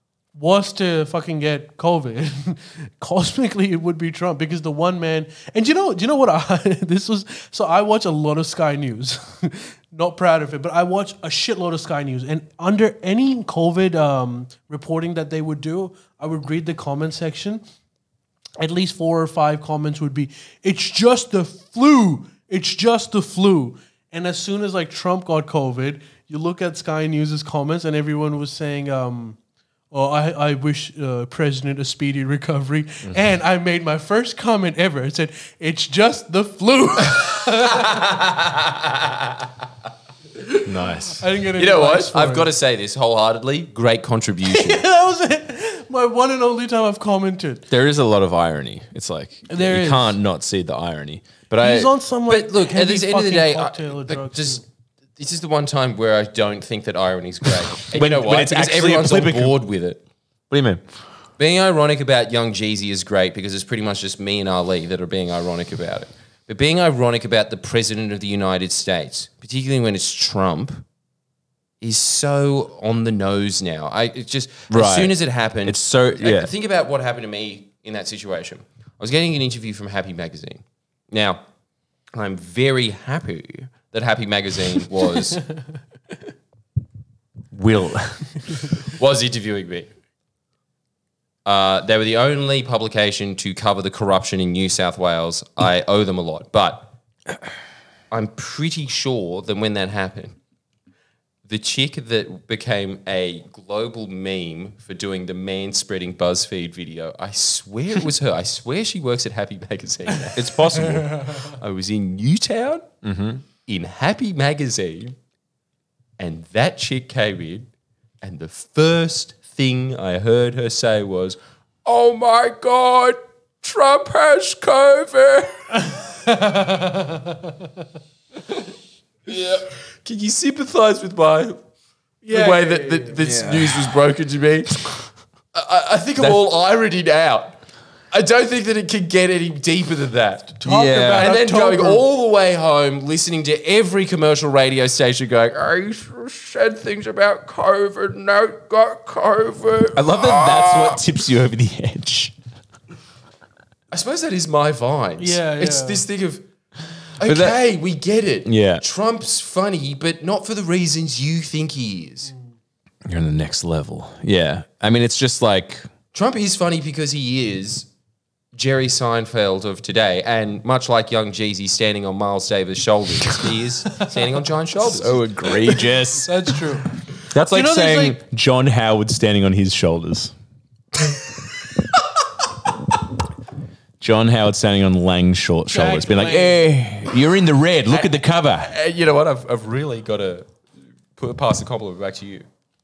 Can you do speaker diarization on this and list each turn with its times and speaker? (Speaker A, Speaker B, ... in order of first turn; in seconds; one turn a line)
Speaker A: 0.3-17.6
Speaker A: 18.6-29.4
Speaker A: 29.9-38.0
Speaker B: 37.7-39.5
Speaker A: 40.5-42.5
Speaker C: 40.6-41.2
Speaker B: 41.6-44.8
Speaker A: 44.5-47.6
Speaker C: 47.7-51.9
Speaker A: 49.5-50.2
Speaker A: 51.6-54.6
Speaker B: 52.3-54.6
Speaker B: 55.1-60.0
Speaker C: 57.9-59.6
Speaker C: 60.5-60.8
Speaker B: 61.4-70.8
Speaker B: 71.8-81.4
Speaker C: 74.7-76.5
Speaker B: 82.1-85.4
Speaker C: 87.5-88.2
Speaker B: 88.8-89.9
Speaker B: 91.4-96.9
Speaker B: 98.1-100.4
Speaker B: 101.5-112.9
Speaker A: 110.9-111.3
Speaker C: 113.0-113.4
Speaker B: 113.6-115.2
Speaker B: 116.2-117.7
Speaker B: 118.2-125.5
Speaker A: 125.8-127.7
Speaker B: 129.2-131.6
Speaker A: 132.2-133.3
Speaker B: 132.3-134.9
Speaker C: 133.2-133.9
Speaker B: 135.5-137.6
Speaker B: 138.1-140.6
Speaker A: 140.6-142.0
Speaker C: 140.6-141.3
Speaker B: 141.1-151.0
Speaker C: 149.9-152.3
Speaker B: 153.9-156.4
Speaker A: 155.2-156.0
Speaker B: 157.2-162.3
Speaker C: 157.2-157.6
Speaker C: 158.4-158.8
Speaker C: 163.1-165.9
Speaker B: 166.1-167.9
Speaker B: 168.5-175.2
Speaker C: 174.8-176.3
Speaker A: 176.1-176.9
Speaker C: 177.3-180.3
Speaker A: 177.5-178.2
Speaker C: 184.0-188.7
Speaker A: 185.7-186.7
Speaker B: 187.9-190.5
Speaker B: 191.2-192.5